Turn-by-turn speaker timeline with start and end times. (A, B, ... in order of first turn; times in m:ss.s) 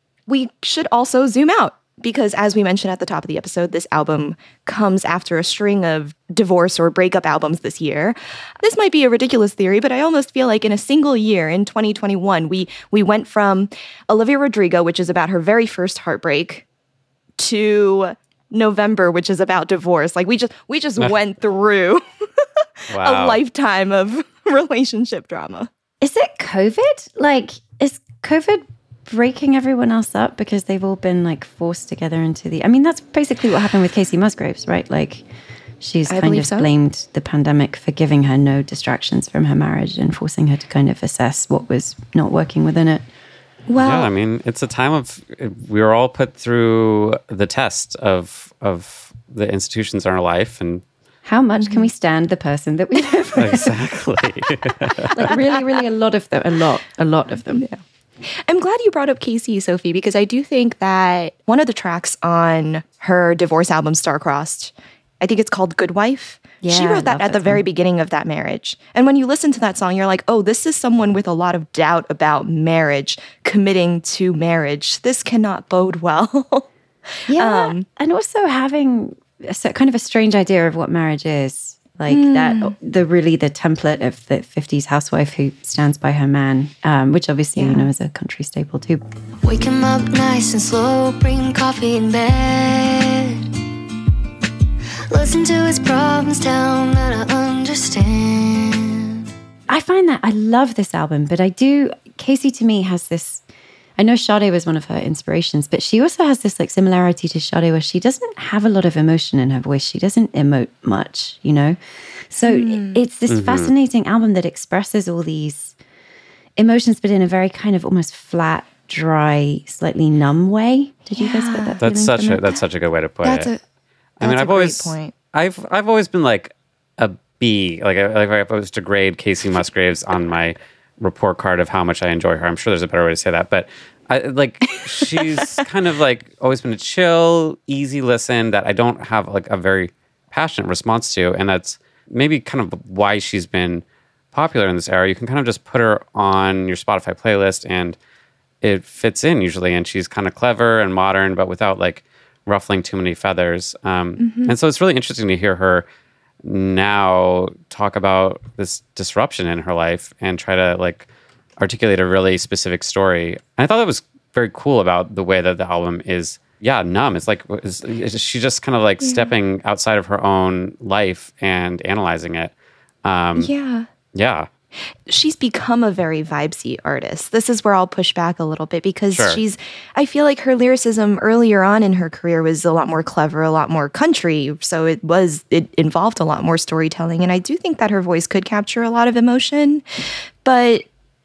0:00.3-0:16.6 A
0:17.4-0:22.0 A
0:22.9-0:23.4 B
0:23.0-0:25.7 A
0:26.0-0:35.2 C
0:35.8-0:43.0 C
0:36.1-0:36.7 A
0:43.7-0:44.1 A
0:43.8-0:50.8 B
0:51.3-0:53.7 C
0:51.6-0:51.9 A
0:53.4-0:55.3 B
0:55.1-0:57.7 C
0:57.5-1:16.7 A
1:06.6-1:07.6 C
1:17.3-1:29.0 C
1:17.3-1:17.9 A
1:22.1-1:22.8 A
1:27.6-1:27.9 A
1:29.4-1:33.4 D
1:35.1-1:39.0 D
1:39.7-1:43.4 C
1:44.0-1:51.8 C
1:52.3-1:55.7 C
1:52.4-1:53.0 A
1:53.3-1:53.7 B
1:56.6-2:02.4 C
2:01.2-2:02.4 A
2:01.8-2:03.5 B
2:03.2-2:03.6 A
2:04.2-2:28.0 B
2:04.2-2:05.1 A
2:28.6-2:35.8 B
2:34.2-2:34.6 A
2:36.4-2:52.5 B
2:49.0-2:49.3 A
2:53.0-2:53.5 B
2:53.4-2:53.9 A
2:54.1-2:54.5 B
2:55.1-3:09.8 A
2:59.1-2:59.4 B
3:10.4-3:10.9 A